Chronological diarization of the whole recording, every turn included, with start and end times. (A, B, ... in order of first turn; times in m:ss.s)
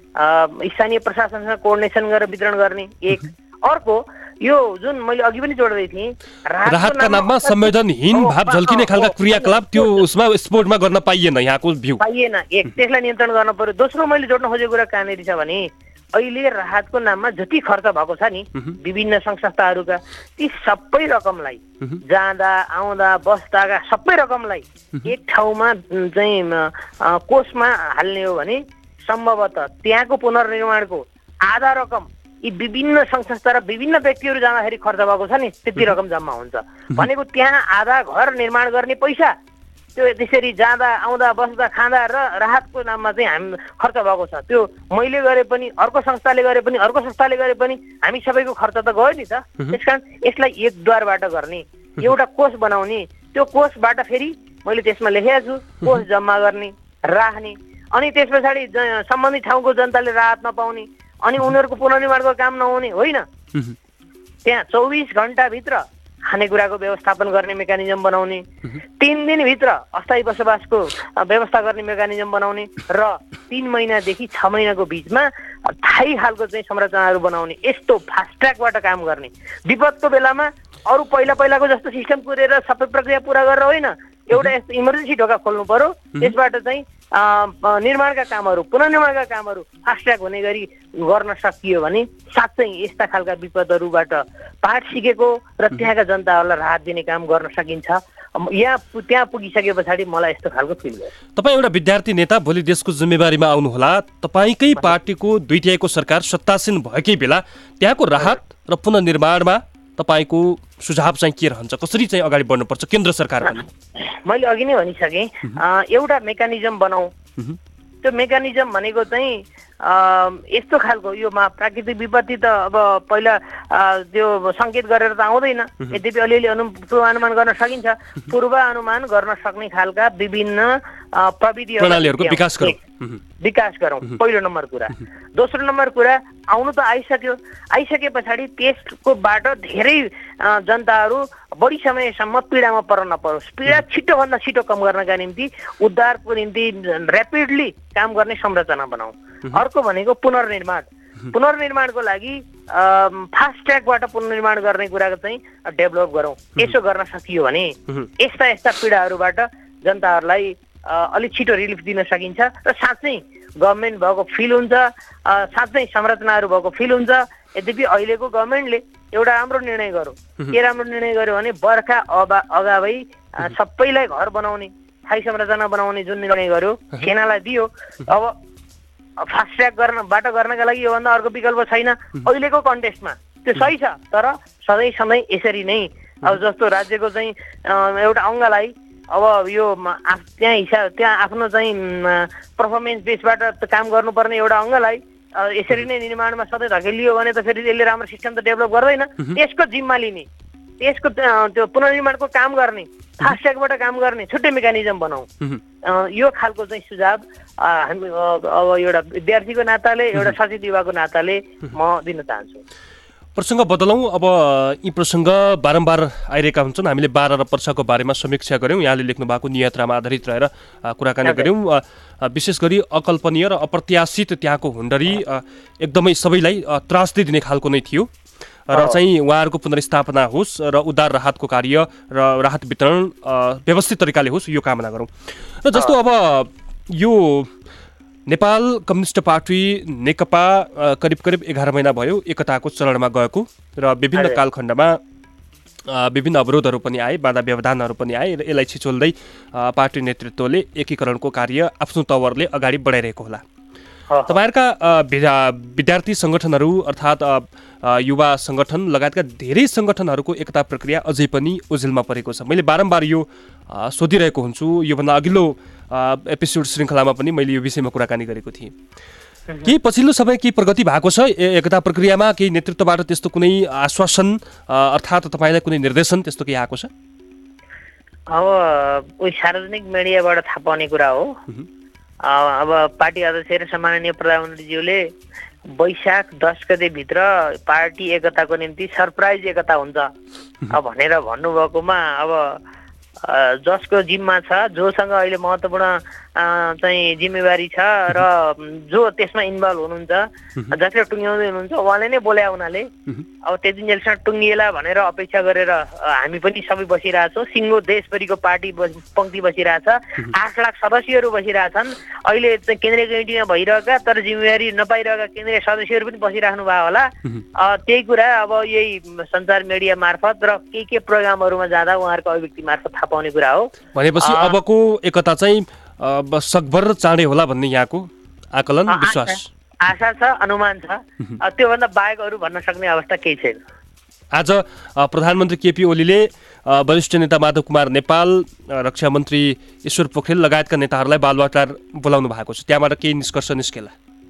0:00.2-0:10.0 A
0:06.6-0:12.0 B
0:12.0-0:39.3 A
0:40.0-1:03.2 A
1:04.4-1:08.4 A
1:09.0-1:41.1 A
1:41.4-1:53.7 B
1:54.0-1:57.1 A
1:58.0-2:12.8 A
2:11.8-2:13.2 B
2:13.4-2:58.3 A
2:59.2-3:20.3 A
3:20.8-3:25.3 A
3:25.8-3:32.6 A
3:33.4-3:48.1 B
3:41.2-3:41.5 A
3:48.7-3:55.1 B
3:48.7-3:49.0 A
3:55.6-3:57.5 B
3:58.3-4:05.0 B
4:04.1-4:04.4 A
4:05.9-4:13.4 B
4:14.1-4:14.4 A
4:14.3-4:28.7 B
4:29.6-4:36.9 B
4:38.3-4:41.4 A
4:42.2-4:45.1 A
4:45.7-4:50.1 A
4:50.7-4:52.6 A
4:53.2-5:02.9 A
5:03.4-5:24.6 A
5:23.9-5:29.5 B
5:28.9-5:33.6 A
5:34.3-5:43.9 B